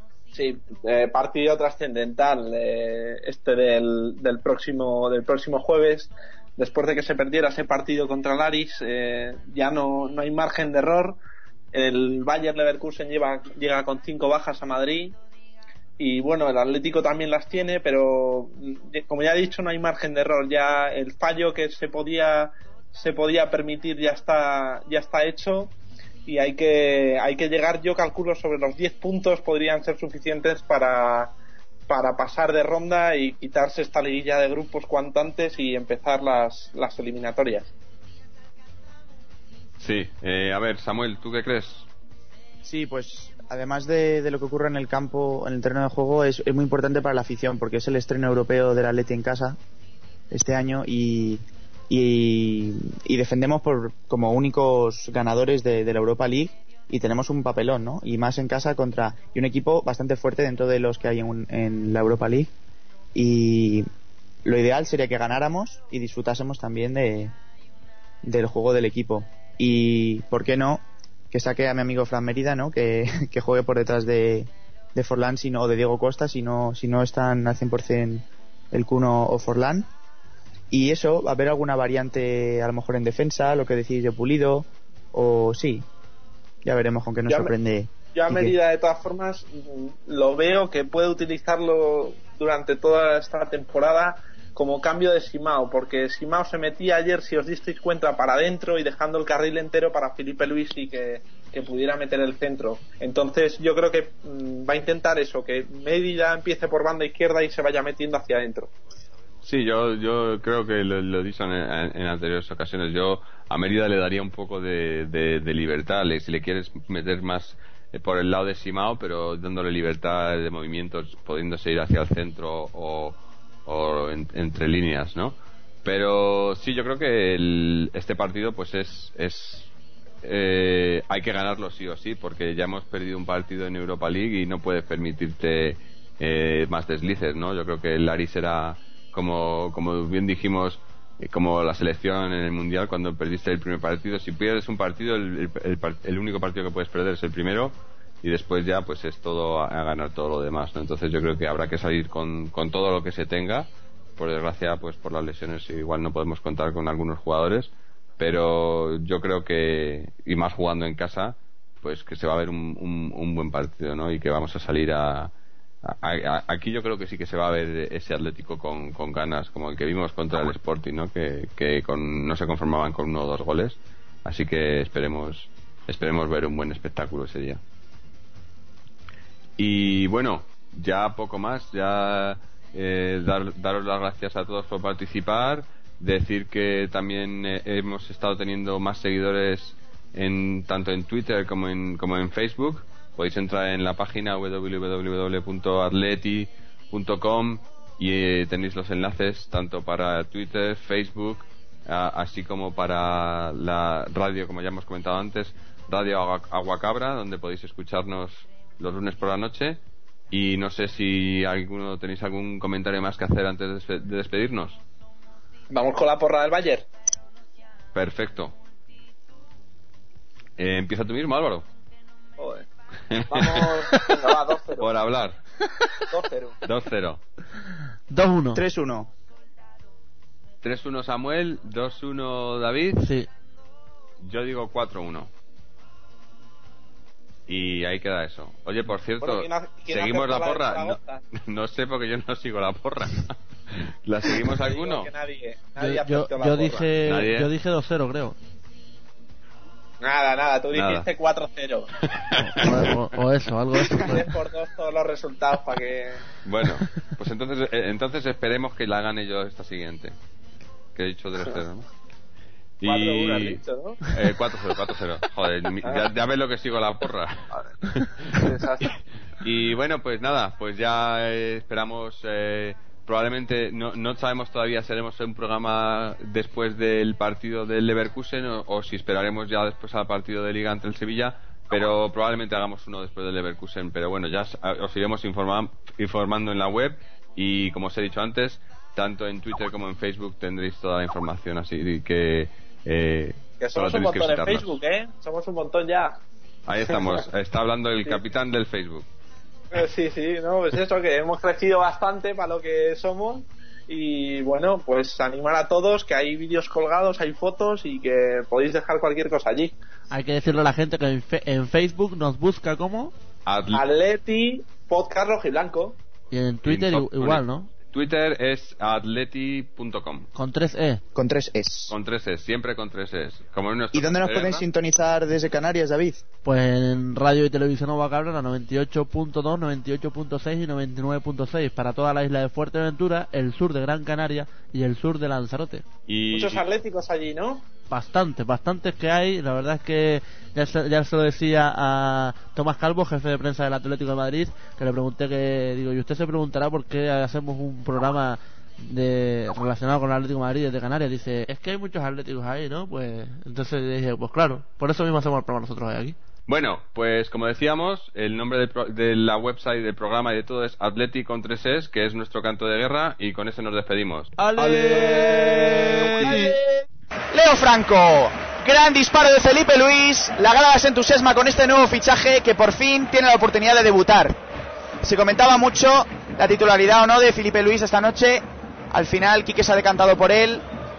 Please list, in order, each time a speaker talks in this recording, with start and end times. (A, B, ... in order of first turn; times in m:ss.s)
0:00.3-0:11.2 A
0:11.7-0:15.2 A
0:16.0-0:25.7 A
0:26.3-0:31.3 A
0:31.9-0:37.7 A
0:39.8-0:41.9 B
0:42.6-0:49.6 C
0:50.3-1:02.5 C
1:03.2-1:03.9 C
1:04.4-1:07.3 C
1:08.2-1:19.9 C
1:20.7-1:25.8 C
1:26.6-1:28.6 C
1:28.1-1:48.7 A
1:49.4-2:09.7 B
2:10.2-2:45.3 B
2:45.8-2:57.6 B
2:59.6-3:34.8 B
3:35.7-3:36.9 A
3:37.9-3:38.6 B
3:40.6-3:41.7 B
3:42.4-3:42.7 A
3:43.1-3:43.8 B
3:43.2-3:44.9 A
3:44.8-3:45.4 B
3:46.0-3:46.6 A
3:46.6-3:47.2 B
3:48.1-3:48.6 D
3:48.5-3:49.1 C
3:50.6-3:53.1 B
3:53.0-3:53.3 D
3:54.2-3:55.3 B
3:57.5-4:05.1 B
3:59.2-4:01.2 A
4:04.5-4:07.0 A
4:05.8-4:08.4 D
4:07.0-4:07.5 B
4:10.0-4:11.9 A
4:10.7-4:11.1 B
4:12.0-4:12.9 B
4:12.3-4:14.2 D
4:13.9-4:16.2 A
4:16.4-4:20.2 B
4:21.0-4:21.9 B
4:22.8-4:28.4 B
4:22.8-4:24.1 A
4:28.3-4:29.0 A
4:29.4-4:54.8 B
4:53.6-4:56.2 A
4:56.7-4:59.1 B
4:59.7-5:09.8 A
5:10.1-5:13.1 D
5:13.5-5:13.8 B
5:13.7-5:16.0 A
5:16.3-5:17.7 D
5:16.6-5:20.3 B
5:20.4-5:21.0 D
5:21.2-5:21.9 C
5:21.9-5:24.6 B
5:23.9-5:26.2 C
5:26.4-5:35.8 D
5:36.1-5:36.6 B
5:36.3-5:37.7 A
5:37.9-5:56.2 D
5:56.5-6:05.2 B
6:04.4-6:06.5 D
6:04.6-6:14.4 C
6:06.2-6:06.5 B
6:15.0-6:20.7 C